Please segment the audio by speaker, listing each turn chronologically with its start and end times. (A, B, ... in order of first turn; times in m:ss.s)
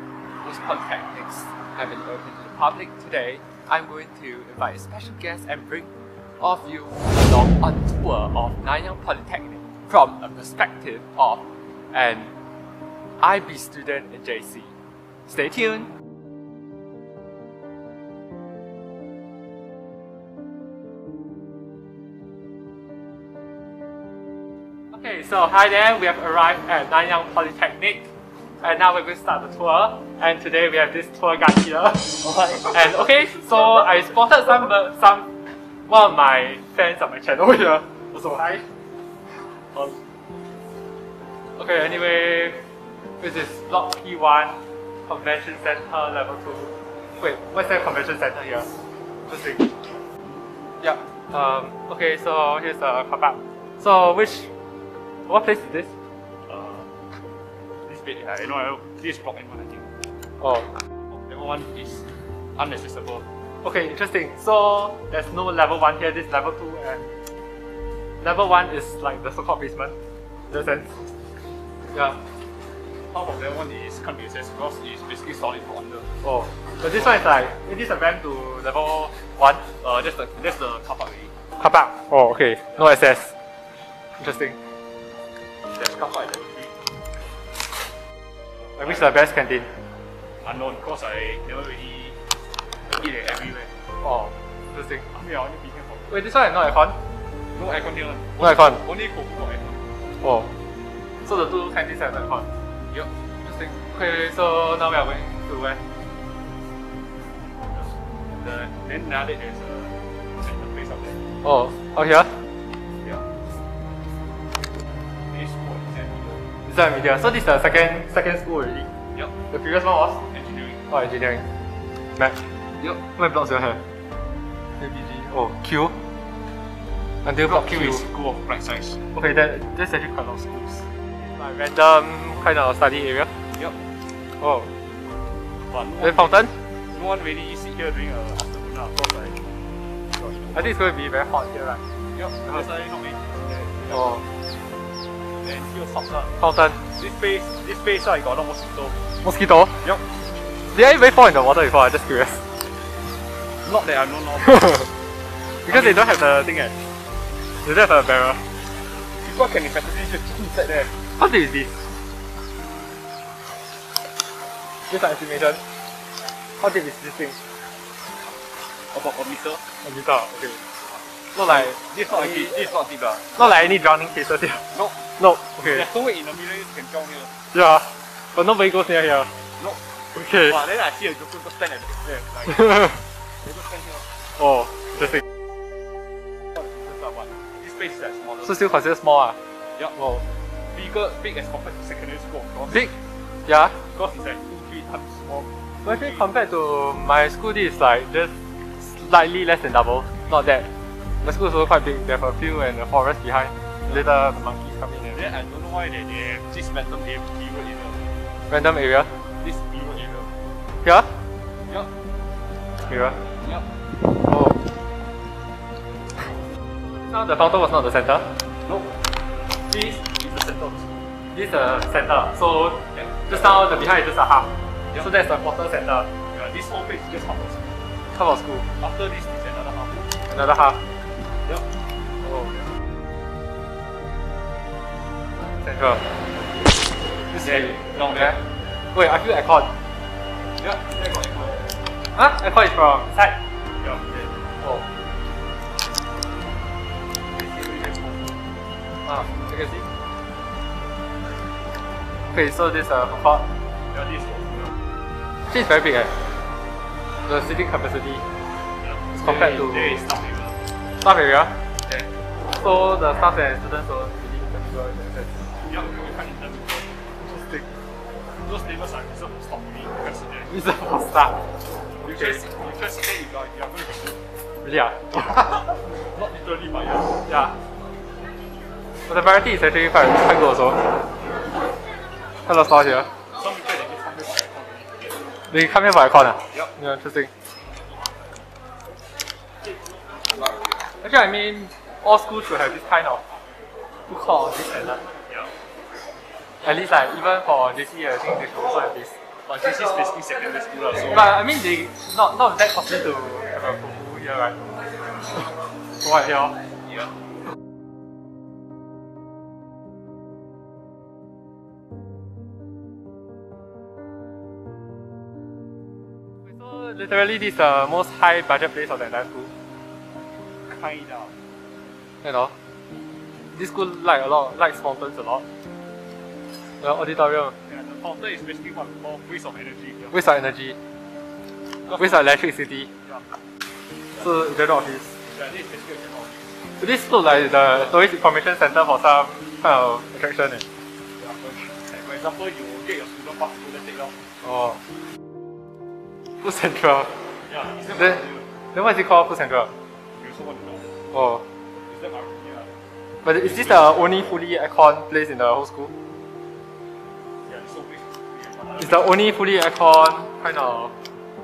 0:00.4-0:12.3 A
0:13.2-0:14.7 A
0:15.3-0:15.9 A
0:24.9-0:28.1 A
0:28.6-0:35.3 A
0:32.2-0:33.0 B
0:35.9-0:38.6 A
0:39.7-0:40.0 B
0:41.6-0:42.6 A
0:43.2-0:48.7 A
0:49.3-0:49.7 A
0:50.8-0:54.5 A
0:55.3-0:55.9 A
0:56.5-0:56.9 B
0:57.9-0:59.9 B
1:00.4-1:00.7 A
1:01.1-1:03.2 B
1:03.6-1:07.1 A
1:08.2-1:10.0 A
1:10.5-1:11.1 A
1:11.9-1:12.2 A
1:13.1-1:16.1 B
1:16.2-1:19.6 A
1:19.8-1:21.3 B
1:21.6-1:23.3 A
1:24.2-1:24.6 A
1:25.7-1:26.7 B
1:28.8-1:29.7 A
1:30.4-1:32.2 B
1:32.9-1:33.7 B
1:34.0-1:35.1 A
1:35.1-1:36.2 B
1:36.1-1:37.0 A
1:37.5-1:39.8 B
1:38.4-1:38.8 A
1:40.2-1:40.5 A
1:41.2-1:42.5 A
1:43.4-1:45.8 A
1:47.7-1:51.2 B
1:51.4-1:52.4 A
1:53.0-1:53.4 B
1:55.3-1:56.4 B
1:56.7-1:58.9 A
1:59.5-2:00.2 A
2:00.3-2:00.8 B
2:00.9-2:01.5 A
2:02.2-2:02.4 A
2:03.0-2:03.8 A
2:04.8-2:06.0 A
2:07.2-2:08.0 A
2:07.4-2:09.0 B
2:09.1-2:13.3 A
2:14.4-2:14.7 A
2:15.7-2:19.4 B
2:16.0-2:16.6 A
2:20.2-2:20.6 B
2:20.5-2:21.8 A
2:22.1-2:24.1 B
2:23.9-2:24.2 A
2:25.4-2:26.3 B
2:26.4-2:26.8 A
2:27.0-2:29.0 B
2:29.2-2:29.8 A
2:29.8-2:30.1 B
2:30.7-2:32.4 A
2:33.6-2:34.7 B
2:34.5-2:34.8 A
2:35.7-2:36.8 A
2:35.7-2:36.1 B
2:37.6-2:38.4 A
2:39.2-2:40.9 B
2:41.2-2:41.8 A
2:44.9-2:45.6 A
2:46.6-2:47.4 A
2:48.9-2:49.6 B
2:49.8-2:50.6 A
2:51.4-2:52.6 A
2:51.4-2:53.4 B
2:53.4-2:54.7 A
2:54.7-2:55.0 B
2:55.2-2:55.9 A
2:55.6-2:57.3 B
2:57.5-2:59.3 A
2:59.6-3:04.1 B
3:00.1-3:00.6 A
3:02.6-3:03.0 A
3:04.4-3:05.2 A
3:06.6-3:08.7 B
3:08.4-3:09.4 A
3:10.0-3:10.2 A
3:10.7-3:12.9 B
3:13.5-3:13.8 A
3:13.9-3:16.3 B
3:15.8-3:20.7 A
3:21.2-3:25.2 A
3:25.1-3:28.0 B
3:28.5-3:29.1 A
3:29.4-3:30.3 B
3:30.8-3:31.1 A
3:32.9-3:33.2 A
3:33.4-3:33.7 B
3:34.2-3:34.6 A
3:36.9-3:38.3 A
3:38.6-3:38.9 B
3:39.7-3:41.1 B
3:41.3-3:46.1 A
3:42.9-3:43.6 B
3:46.3-3:47.8 B
3:48.1-3:48.7 A
3:48.8-3:50.1 B
3:50.3-3:50.8 A
3:52.2-3:52.5 A
3:55.6-3:56.1 A
3:57.3-3:58.4 A
3:57.4-3:58.4 B
3:58.9-3:59.7 A
4:00.6-4:01.7 B
4:02.1-4:03.4 A
4:03.8-4:04.4 B
4:07.3-4:08.4 B
4:09.0-4:09.9 A
4:12.3-4:13.5 A
4:13.9-4:14.8 B
4:15.5-4:16.1 A
4:17.3-4:18.2 A
4:18.8-4:20.6 B
4:19.2-4:20.0 A
4:21.0-4:21.6 A
4:21.8-4:22.1 B
4:22.5-4:25.4 A
4:25.6-4:26.9 B
4:27.2-4:27.7 A
4:28.4-4:30.5 B
4:30.5-4:31.4 A
4:32.0-4:34.2 B
4:32.0-4:32.4 A
4:34.6-4:35.6 A
4:36.0-4:37.2 B
4:37.3-4:37.6 A
4:39.1-4:40.9 A
4:42.5-4:43.1 A
4:43.3-4:45.2 B
4:45.5-4:47.3 A
4:51.0-4:53.2 A
4:54.1-4:55.0 A
4:55.3-4:55.5 B
4:56.6-4:59.2 A
4:59.5-5:01.4 B
5:01.0-5:04.6 A
5:06.0-5:06.6 A
5:16.4-5:19.5 A
5:20.7-5:21.3 B
5:22.2-5:22.5 A
5:23.5-5:25.4 A
5:26.8-5:27.6 A
5:27.6-5:30.2 B
5:30.1-5:30.8 A
5:31.9-5:32.9 A
5:33.0-5:33.3 B
5:34.2-5:35.1 A
5:35.3-5:36.5 B
5:36.8-5:40.6 A
5:41.2-5:44.2 B
5:44.4-5:44.8 A
5:46.4-5:47.2 A
5:47.4-5:48.5 B
5:48.0-5:48.2 A
5:48.7-5:49.7 A
5:50.2-5:50.9 B
5:51.1-5:51.4 A
5:51.9-5:52.7 B
5:53.2-5:55.9 A
5:53.4-5:54.2 B
5:57.5-5:59.2 B
5:58.8-6:00.9 A